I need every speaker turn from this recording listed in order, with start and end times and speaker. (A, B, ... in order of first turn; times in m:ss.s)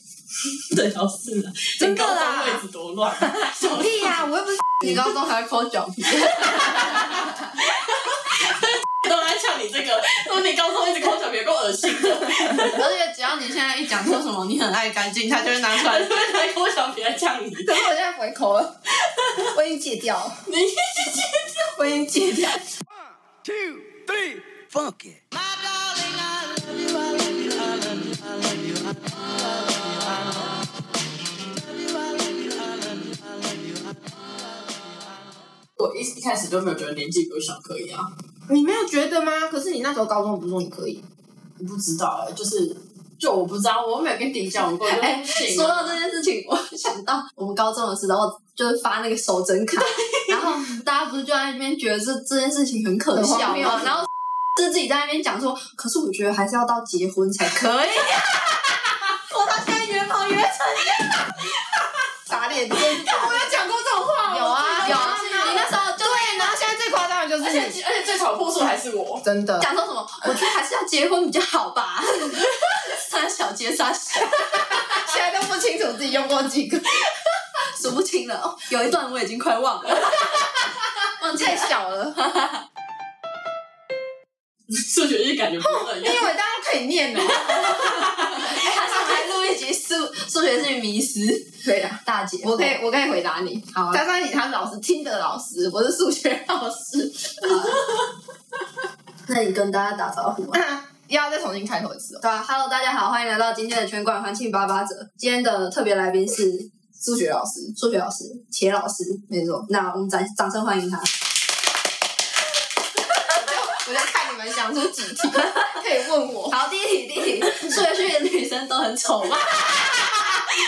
0:00.5-0:04.2 A
0:01.8-0:02.6 B
0:03.4-0:05.1 B
0:04.8-0:07.3 C
0:06.4-0:12.8 A
0:12.6-0:16.1 C
0:15.7-0:17.8 A
0:17.6-0:18.8 B
0:19.1-0:19.4 A
0:19.4-0:20.4 B
0:20.5-0:21.7 A
0:21.6-0:22.6 C
0:23.4-0:26.5 D
0:26.6-0:28.1 A
0:35.8-0:38.1 A
0:38.5-0:41.0 B
0:41.6-0:46.0 A
0:44.8-1:01.5 C
0:49.8-0:50.3 A
0:53.2-0:54.0 B
1:02.3-1:03.5 B
1:02.9-1:05.6 A
1:04.2-1:07.8 B
1:04.8-1:06.6 C
1:07.4-1:09.2 A
1:09.2-1:09.7 B
1:09.6-1:14.8 C
1:14.6-1:17.0 B
1:17.7-1:20.7 C
1:21.2-1:22.6 C
1:21.2-1:22.2 B
1:24.7-1:26.3 A
1:25.6-1:29.2 B
1:27.7-1:28.4 A
1:27.7-1:31.5 C
1:31.6-1:37.5 B
1:32.0-1:32.8 C
1:33.7-1:34.0 C
1:37.4-1:37.8 C
1:39.3-1:40.6 C
1:40.5-1:42.2 B
1:42.2-1:46.7 C
1:47.0-1:47.7 B
1:47.8-1:51.1 C
1:49.3-1:49.7 B
1:53.2-1:56.6 B
1:55.2-1:55.7 C
1:56.5-2:00.4 C